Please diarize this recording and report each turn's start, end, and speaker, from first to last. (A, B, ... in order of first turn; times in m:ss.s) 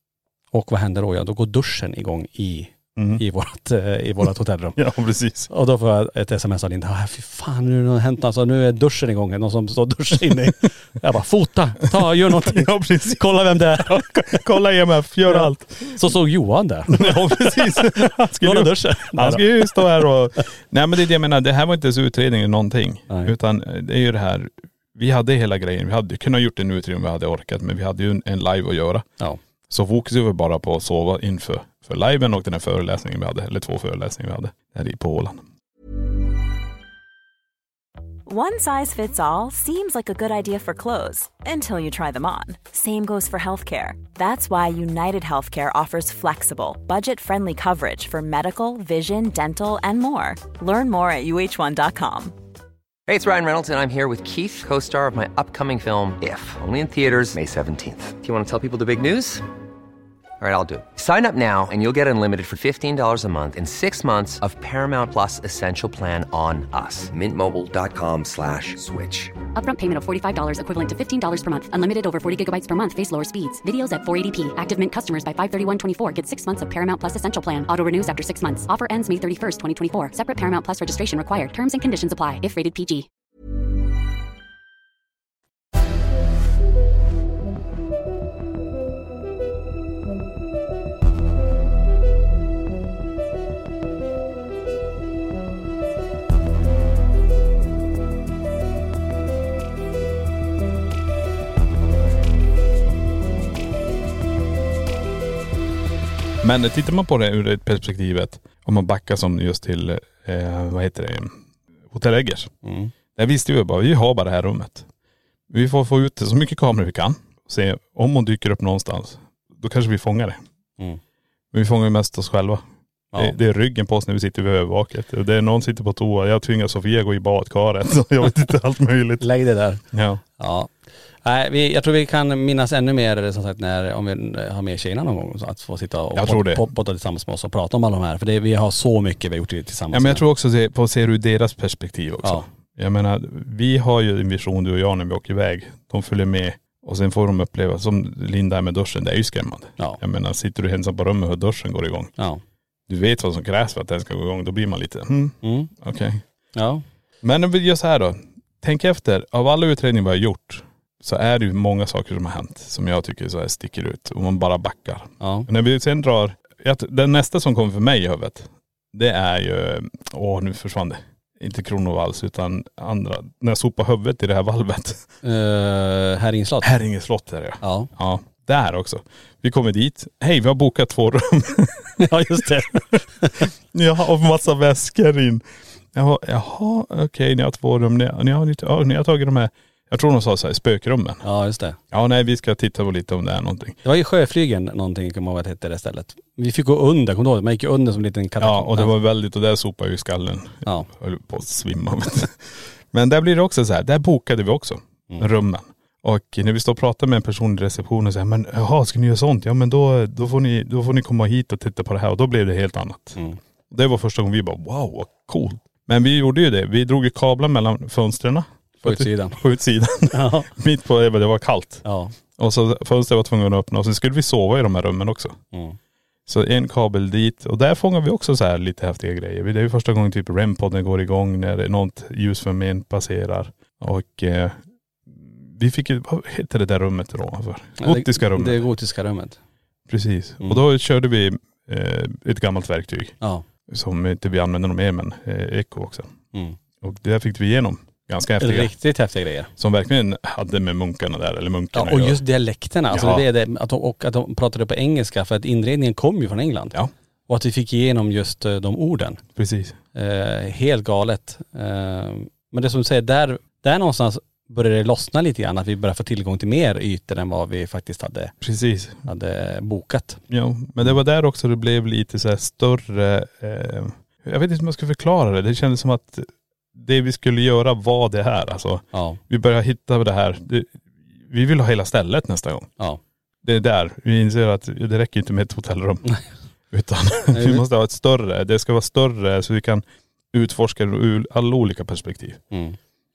0:00.5-0:04.8 A
0:03.0-0:03.2 B
0:04.8-0:05.5 B
0:05.5-0:14.4 A
0:12.0-0:16.1 B
0:15.3-0:19.9 A
0:16.9-0:29.1 B
0:29.7-0:35.4 B
0:38.2-0:52.3 C
0:53.1-0:59.4 D
1:00.4-1:09.4 D
1:09.5-1:23.0 E
1:46.4-1:51.4 B
1:51.9-1:52.5 B
1:52.6-1:52.9 A
1:53.1-1:54.9 B
1:55.5-2:00.4 B
2:01.5-2:02.6 B
2:03.1-2:09.2 B
2:09.2-2:09.8 A
2:09.9-2:10.2 B
2:10.4-2:10.7 A
2:11.2-2:20.2 A
2:16.1-2:16.7 B
2:19.9-2:32.1 B
2:32.9-2:36.2 B
2:35.4-2:35.7 A
2:36.5-2:36.8 A
2:37.2-2:55.1 B
2:45.2-2:45.5 A
2:55.2-2:56.7 A
2:56.6-3:02.6 B
2:57.6-2:57.9 A
3:02.0-3:03.5 A
3:03.4-3:11.2 B
3:11.2-3:11.8 A
3:11.9-3:13.8 B
3:13.8-3:18.9 A
3:18.4-3:33.2 B
3:33.7-3:41.8 B
3:38.8-3:39.4 A
3:40.1-3:40.5 A
3:41.8-3:42.1 A
3:42.4-3:45.4 B
3:46.3-3:58.6 B
3:57.8-3:59.4 A
3:59.9-4:06.1 B
4:06.8-4:08.7 B
4:08.4-4:09.5 A
4:09.6-4:12.2 B
4:11.7-4:16.7 A
4:12.9-4:13.2 B
4:17.3-4:19.2 A
4:19.4-4:19.8 B
4:19.9-4:28.3 A
4:28.4-4:29.0 B
4:29.0-4:30.2 A
4:30.3-4:42.7 B
4:38.9-4:39.2 A
4:43.4-4:46.1 B
4:46.7-4:52.4 B
4:47.3-4:47.6 A
4:52.5-4:52.8 A